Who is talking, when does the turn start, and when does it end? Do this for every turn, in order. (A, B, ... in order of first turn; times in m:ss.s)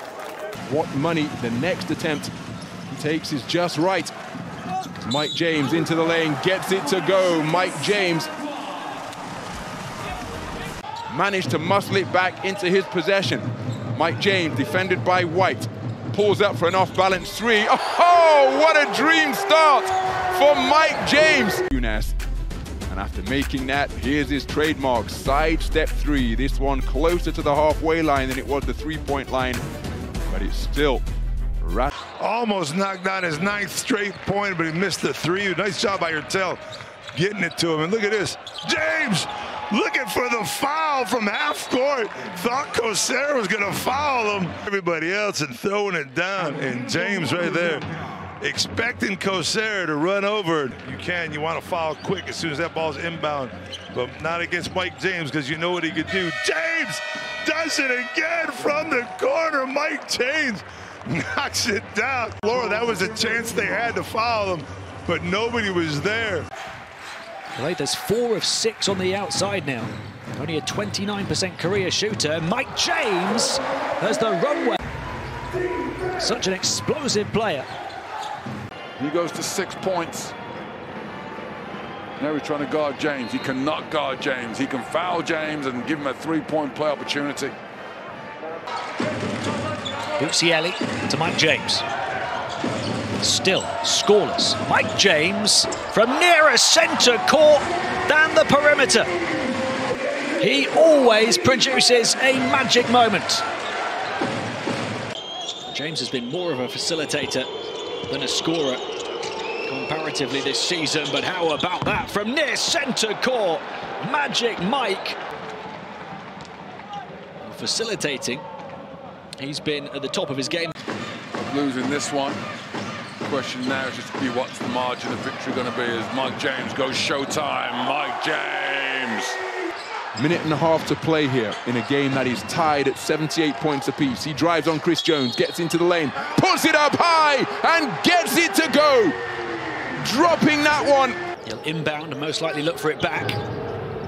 0:00.6-0:02.3 A
0:02.9-0:04.1 A
0:05.0-0:08.3 A
0:11.1-0:22.2 A
0:22.9-0:29.6 A
0:30.3-0:31.0 A
0:31.6-0:31.9 A
0:32.2-0:36.6 B
0:37.1-0:47.8 B
0:48.4-1:06.5 B
1:07.5-1:14.8 C
1:16.2-1:17.7 C
1:19.0-1:20.3 D
1:22.2-1:27.5 D
1:30.2-1:31.8 C
1:33.2-1:39.1 C
1:40.4-1:43.4 C
1:45.7-1:47.5 C
1:48.1-1:48.8 C
1:49.6-1:55.2 C
1:57.4-1:58.4 C
1:59.4-2:00.7 C
2:01.4-2:02.4 D
2:03.2-2:09.4 D
2:10.1-2:19.2 A
2:20.0-2:21.2 A
2:21.4-2:23.4 C